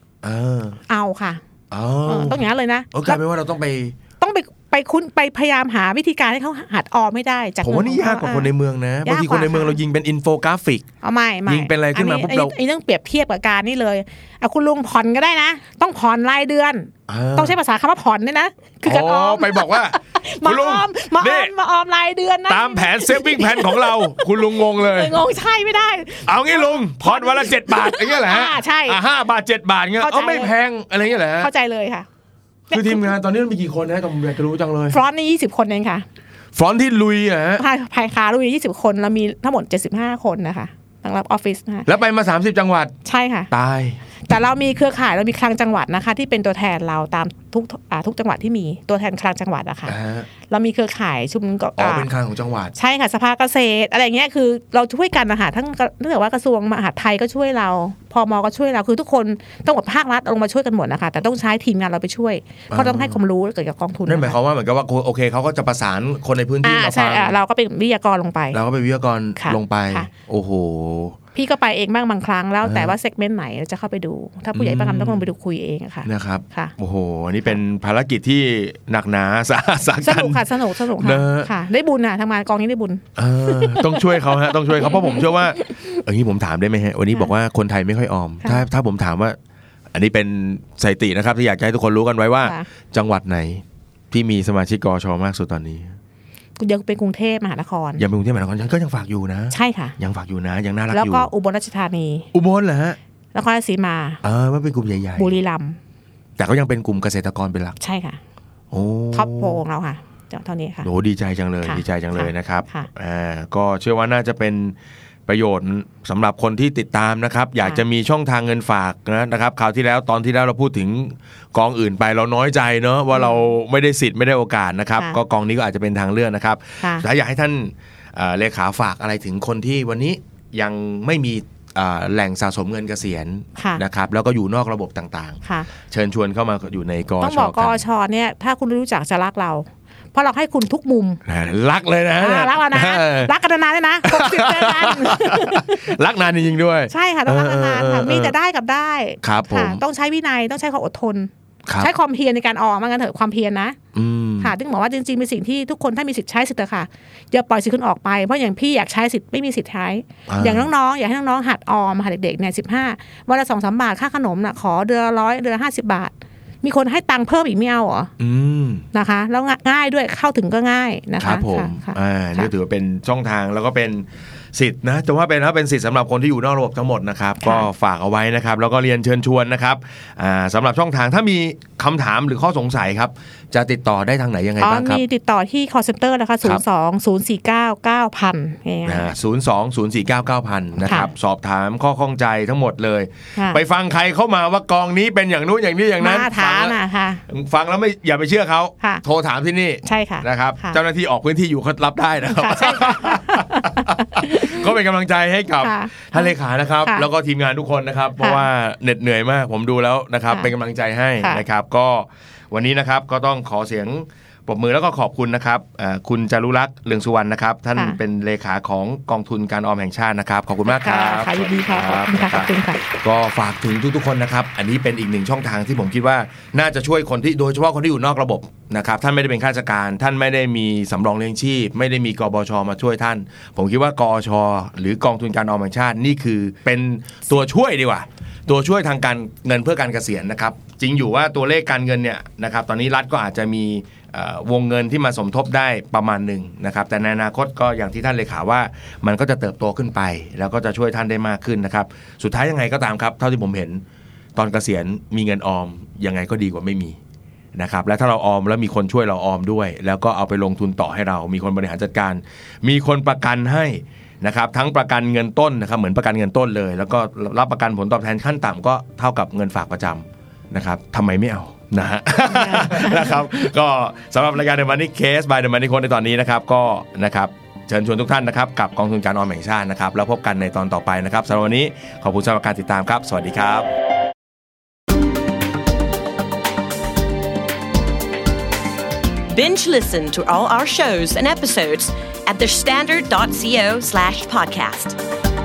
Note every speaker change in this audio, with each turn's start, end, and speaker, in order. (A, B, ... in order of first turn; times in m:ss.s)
0:00.2-0:00.8 A
0:00.9-0:01.4 B
0:01.7-0:04.0 A
0:02.1-0:03.2 B
0:04.2-0:08.5 B
0:07.6-0:10.8 A
0:09.0-0:09.8 B
0:11.0-0:29.0 B
0:11.4-0:12.5 A
0:17.1-0:17.6 A
0:18.8-0:21.5 A
0:22.5-0:25.2 A
0:26.2-0:31.5 A
0:30.0-0:30.5 B
0:31.4-0:32.0 B
0:32.7-0:33.1 B
0:32.7-0:35.0 A
0:34.9-0:36.0 B
0:36.5-0:37.6 A
0:37.6-0:41.9 B
0:41.8-0:42.9 A
0:43.0-0:43.5 B
0:43.5-0:44.0 A
0:44.3-0:50.0 B
0:49.8-0:50.3 A
0:50.5-0:52.1 B
0:51.8-0:52.7 A
0:52.7-1:04.4 B
1:02.7-1:03.2 A
1:04.0-1:07.4 A
1:06.6-1:08.6 B
1:08.5-1:11.2 A
1:09.4-1:10.1 B
1:11.3-1:16.7 B
1:12.6-1:12.9 A
1:14.5-1:15.3 A
1:16.0-1:21.5 A
1:20.0-1:25.8 B
1:23.2-1:29.4 A
1:29.9-1:35.9 A
1:36.6-1:38.0 B
1:38.0-1:41.3 A
1:39.5-1:40.0 B
1:40.9-1:42.3 B
1:42.3-1:43.0 A
1:43.3-1:44.2 B
1:44.2-1:45.3 A
1:45.2-1:45.8 B
1:46.4-1:47.8 A
1:47.8-1:48.2 B
1:48.7-1:49.6 A
1:49.1-1:50.9 B
1:50.8-1:54.8 A
1:51.6-1:52.9 B
1:55.3-2:17.8 A
2:13.6-2:13.8 B
2:17.2-2:21.2 B
2:21.2-2:23.3 A
2:22.2-2:25.9 B
2:24.0-2:28.3 A
2:26.9-2:33.8 B
2:29.2-2:29.8 A
2:31.6-2:31.9 A
2:33.9-2:34.5 A
2:34.4-2:48.1 B
2:40.3-2:40.7 A
2:48.2-2:48.8 A
2:48.9-2:52.5 B
2:51.2-3:05.0 A
2:57.4-2:57.7 B
3:04.6-3:09.1 B
3:08.8-4:13.8 A
3:10.8-3:11.1 B
3:16.0-3:17.2 B
3:19.8-3:20.8 B
3:22.3-3:24.6 B
3:25.6-3:27.0 B
3:28.2-3:28.4 B
3:40.6-3:42.8 B
4:14.4-4:17.0 A
4:17.5-4:43.7 A
4:32.3-4:33.2 B
4:49.3-4:55.0 C